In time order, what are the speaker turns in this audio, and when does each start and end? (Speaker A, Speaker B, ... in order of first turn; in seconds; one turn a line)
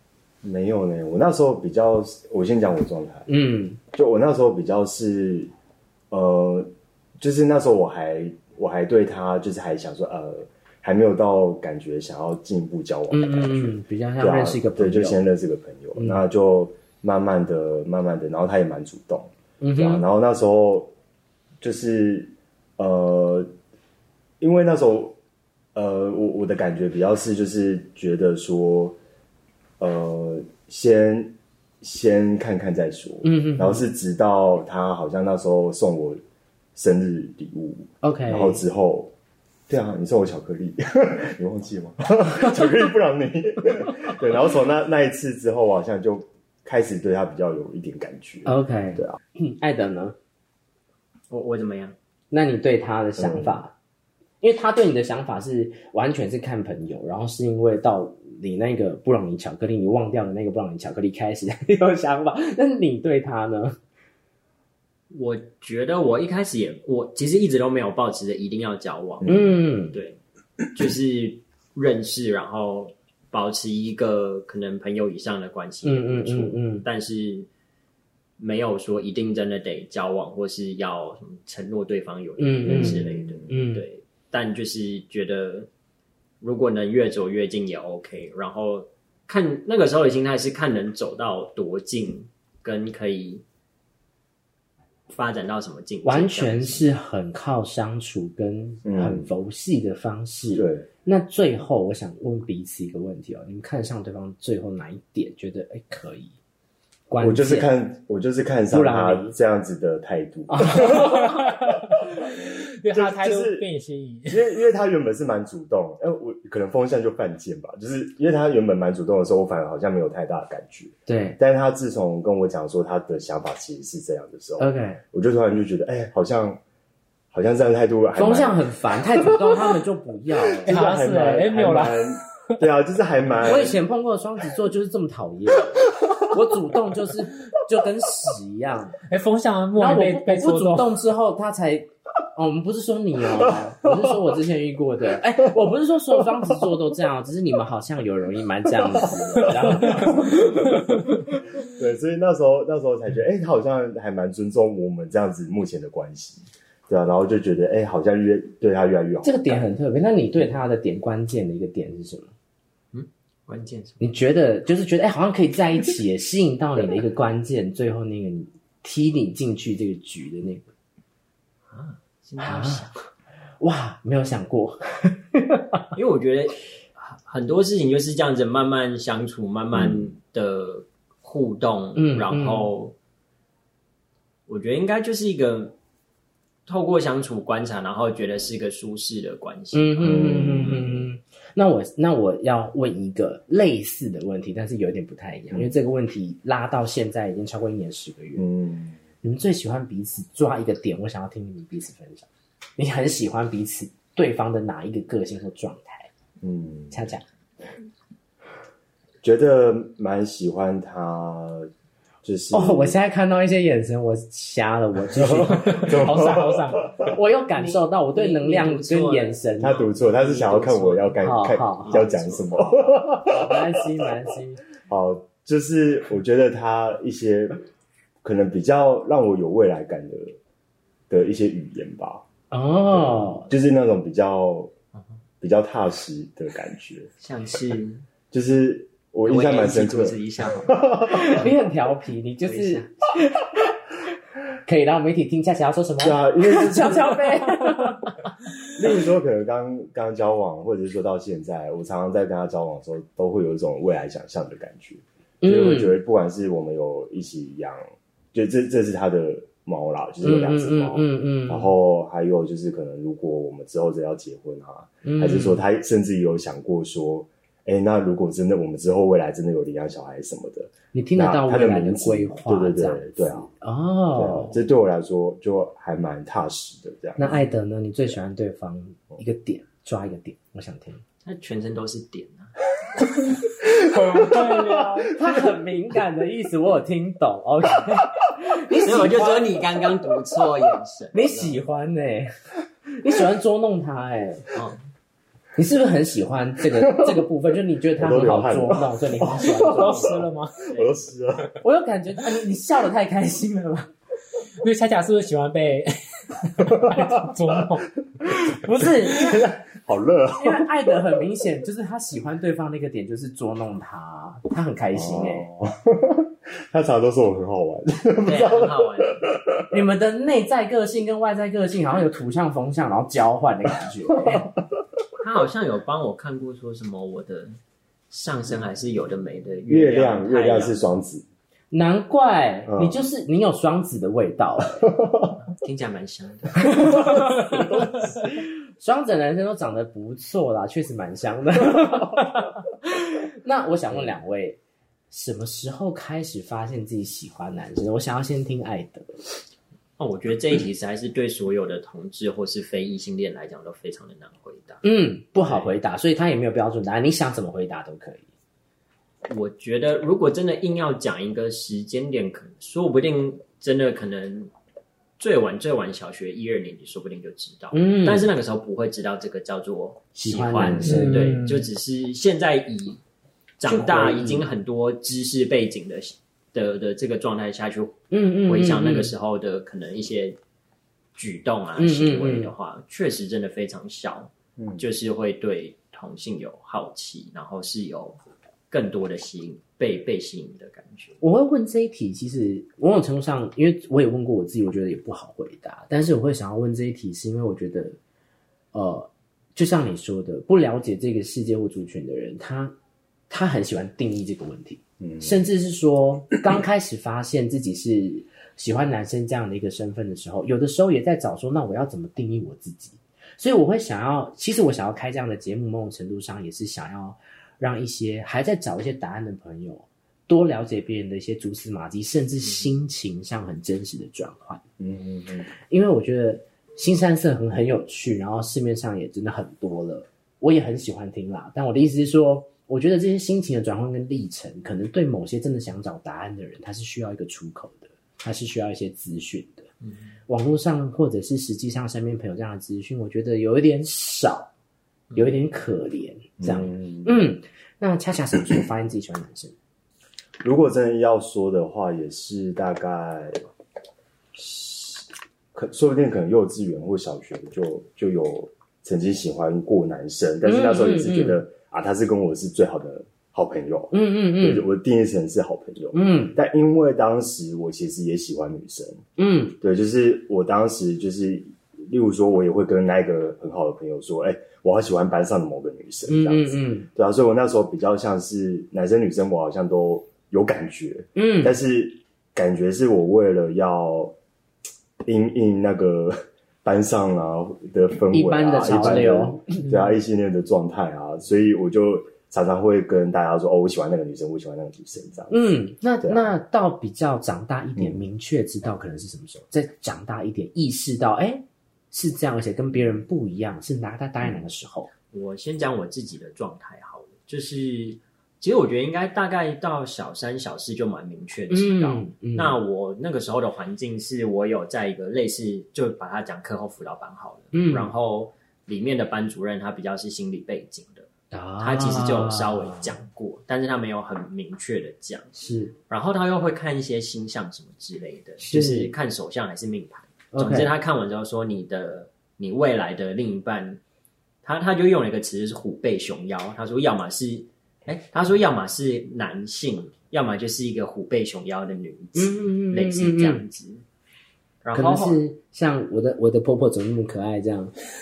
Speaker A: 0.4-3.3
Speaker B: 3.3-3.8
Speaker A: 3.9-5.5
Speaker A: 6.1-20.9
Speaker B: 13.1-15.2
Speaker B: 19.6-20.0
Speaker A: 21.6-23.5
Speaker A: 24.4-25.2
Speaker A: 25.8-29.0
Speaker A: 29.8-36.2
Speaker B: 33.2-33.9
Speaker A: 36.8-39.1
Speaker B: 38.0-38.6
Speaker A: 39.7-49.2
Speaker B: 48.5-50.2
Speaker C: 51.3-52.0
Speaker B: 52.3-53.7
Speaker A: 53.2-53.5
Speaker B: 54.4-63.8
Speaker C: 65.1-69.4
Speaker A: 69.2-69.5
Speaker B: 69.2-70.0
Speaker C: 69.9-70.2
Speaker C: 70.7-77.5
Speaker B: 75.8-76.8
Speaker C: 78.4-85.7
Speaker B: 82.4-83.8
Speaker A: 82.7-83.5
Speaker C: 86.4-93.4
Speaker C: 95.1-96.9
Speaker B: 96.0-106.3
Speaker A: 98.8-99.3
Speaker A: 100.5-100.9
Speaker B: 107.1-107.7
Speaker A: 107.2-111.6
Speaker B: 108.7-109.3
Speaker B: 110.5-111.2
Speaker D: 110.8-114.4
Speaker A: 112.9-113.6
Speaker A: 114.3-126.6
Speaker B: 121.1-121.4
Speaker B: 124.6-125.0
Speaker A: 127.3-128.6
Speaker B: 128.2-130.8
Speaker A: 129.2-129.7
Speaker A: 130.6-133.8
Speaker D: 130.7-132.2
Speaker B: 133.4-139.0
Speaker D: 139.1-141.0
Speaker B: 139.8-150.8
Speaker A: 143.5-144.1
Speaker A: 149.0-150.8
Speaker A: 151.6-159.6
Speaker B: 159.2-162.3
Speaker C: 162.9-164.1
Speaker B: 164.0-170.7
Speaker C: 171.7-173.1
Speaker B: 172.4-172.9
Speaker B: 173.6-175.8
Speaker C: 175.9-182.9
Speaker A: 179.8-180.1
Speaker B: 182.0-182.7
Speaker C: 184.5-185.8
Speaker C: 186.7-190.3
Speaker B: 189.7-198.5
Speaker A: 190.0-191.1
Speaker A: 198.4-199.0
Speaker B: 199.2-206.1
Speaker A: 206.4-207.0
Speaker B: 206.9-207.2
Speaker A: 209.2-211.7
Speaker A: 212.2-213.0
Speaker B: 212.5-216.0
Speaker A: 215.1-217.1
Speaker D: 215.7-216.8
Speaker B: 217.0-219.8
Speaker C: 217.6-222.9
Speaker A: 219.6-223.6
Speaker B: 221.2-222.0
Speaker B: 223.2-224.6
Speaker A: 224.9-227.6
Speaker A: 228.2-230.4
Speaker A: 231.1-232.2
Speaker B: 232.5-233.5
Speaker A: 232.9-234.7
Speaker A: 235.4-237.1
Speaker C: 237.2-238.1
Speaker A: 238.3-241.5
Speaker C: 239.2-240.8
Speaker B: 241.1-243.8
Speaker C: 242.4-242.9
Speaker B: 244.7-248.2
Speaker A: 246.0-247.5
Speaker A: 248.8-257.8
Speaker B: 255.4-256.0
Speaker A: 258.3-273.5
Speaker B: 260.2-261.7
Speaker B: 265.0-265.6
Speaker B: 270.9-274.6
Speaker A: 274.1-277.4
Speaker B: 277.2-281.0
Speaker C: 281.2-282.5
Speaker D: 283.7-285.2
Speaker A: 283.8-285.0
Speaker B: 285.1-289.6
Speaker C: 288.8-291.6
Speaker B: 291.1-292.3
Speaker B: 292.9-294.5
Speaker B: 295.6-300.1
Speaker A: 296.8-297.2
Speaker A: 298.0-301.5
Speaker D: 299.6-300.6
Speaker C: 300.7-301.0
Speaker B: 301.6-303.9
Speaker D: 304.6-307.9
Speaker A: 306.6-307.3
Speaker A: 308.5-311.0
Speaker B: 308.6-309.4
Speaker B: 310.4-315.5
Speaker A: 314.9-319.8
Speaker C: 318.2-319.2
Speaker B: 319.7-324.4
Speaker C: 325.2-327.6
Speaker C: 328.1-330.9
Speaker A: 329.7-331.2
Speaker B: 331.7-334.9
Speaker A: 332.7-333.0
Speaker A: 334.8-335.4
Speaker C: 335.5-337.0
Speaker B: 336.6-337.6
Speaker A: 337.3-338.1
Speaker B: 338.2-344.6
Speaker B: 345.1-349.2
Speaker C: 350.0-354.8
Speaker B: 354.8-358.2
Speaker C: 355.4-355.7
Speaker C: 359.3-364.5
Speaker C: 365.2-373.0
Speaker B: 367.7-368.3
Speaker B: 370.1-371.4
Speaker A: 370.6-371.0
Speaker D: 370.8-371.6
Speaker C: 373.6-380.4
Speaker B: 373.6-374.5
Speaker B: 378.1-379.1
Speaker C: 381.1-388.2
Speaker B: 381.8-382.5
Speaker A: 384.6-384.8
Speaker C: 388.7-391.2
Speaker B: 391.2-398.0
Speaker B: 398.7-402.8
Speaker B: 403.3-424.6
Speaker A: 405.0-405.4
Speaker A: 424.8-425.5
Speaker B: 425.7-439.7
Speaker C: 439.8-440.1
Speaker B: 440.3-444.5
Speaker B: 445.2-449.5
Speaker A: 446.4-447.1
Speaker A: 450.4-453.4
Speaker A: 454.4-469.0
Speaker B: 460.4-461.4
Speaker B: 463.9-464.7
Speaker B: 465.9-466.4
Speaker B: 469.2-469.6
Speaker A: 469.6-484.2
Speaker B: 476.1-476.9
Speaker B: 481.1-481.5
Speaker A: 485.0-495.4
Speaker B: 488.1-489.6
Speaker B: 495.3-504.9
Speaker A: 496.0-496.3
Speaker C: 505.1-521.1
Speaker B: 511.5-512.6
Speaker B: 517.5-517.9
Speaker B: 521.3-522.9
Speaker C: 521.6-525.4
Speaker B: 525.4-525.7
Speaker C: 525.9-533.8
Speaker B: 528.4-528.9
Speaker B: 530.3-530.7
Speaker C: 534.4-543.8
Speaker B: 542.2-543.4
Speaker C: 544.6-545.2
Speaker B: 544.7-547.7